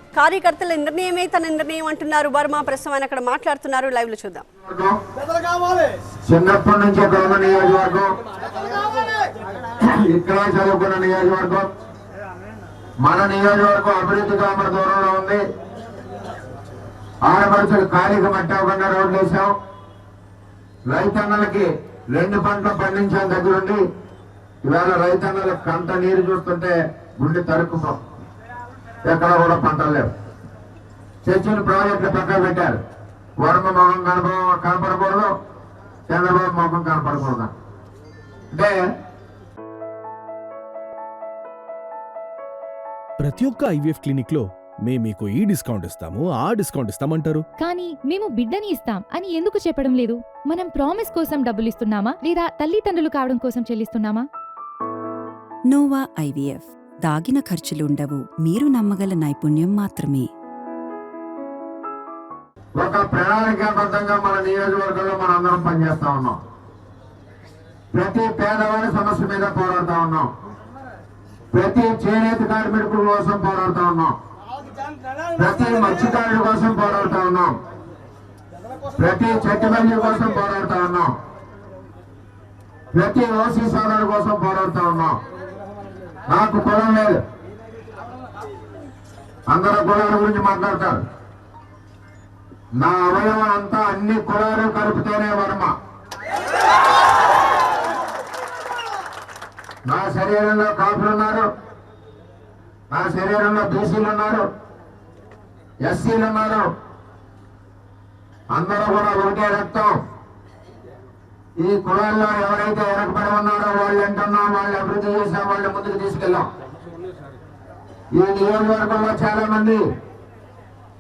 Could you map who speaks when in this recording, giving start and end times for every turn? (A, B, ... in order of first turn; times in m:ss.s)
0:00.2-0:04.4 A
0:04.6-0:05.0 B
0:06.3-0:08.1 B
0:09.8-0:11.7 B
0:13.0-0:15.4 B
0:17.3-0:19.5 B
0:20.9-0:23.8 B
0:24.7-0:28.0 B
0:29.1-0:30.1 B
0:31.2-0:32.8 B
0:33.4-0:35.3 B
0:36.1-0:37.5 B
0:43.2-0:47.5 C
0:47.6-0:54.3 D
0:55.7-1:00.3 E
1:02.8-1:06.4 B
1:07.9-1:10.3 B
1:11.5-1:14.1 B
1:15.4-1:17.5 B
1:19.0-1:21.1 B
1:22.9-1:25.1 B
1:26.3-1:27.2 B
1:29.5-1:31.0 B
1:32.8-1:35.7 B
1:39.8-1:41.5 B
1:42.9-1:44.4 B
1:45.8-1:46.7 B
1:48.5-1:50.0 B
1:51.6-1:56.4 B
1:58.2-1:59.8 B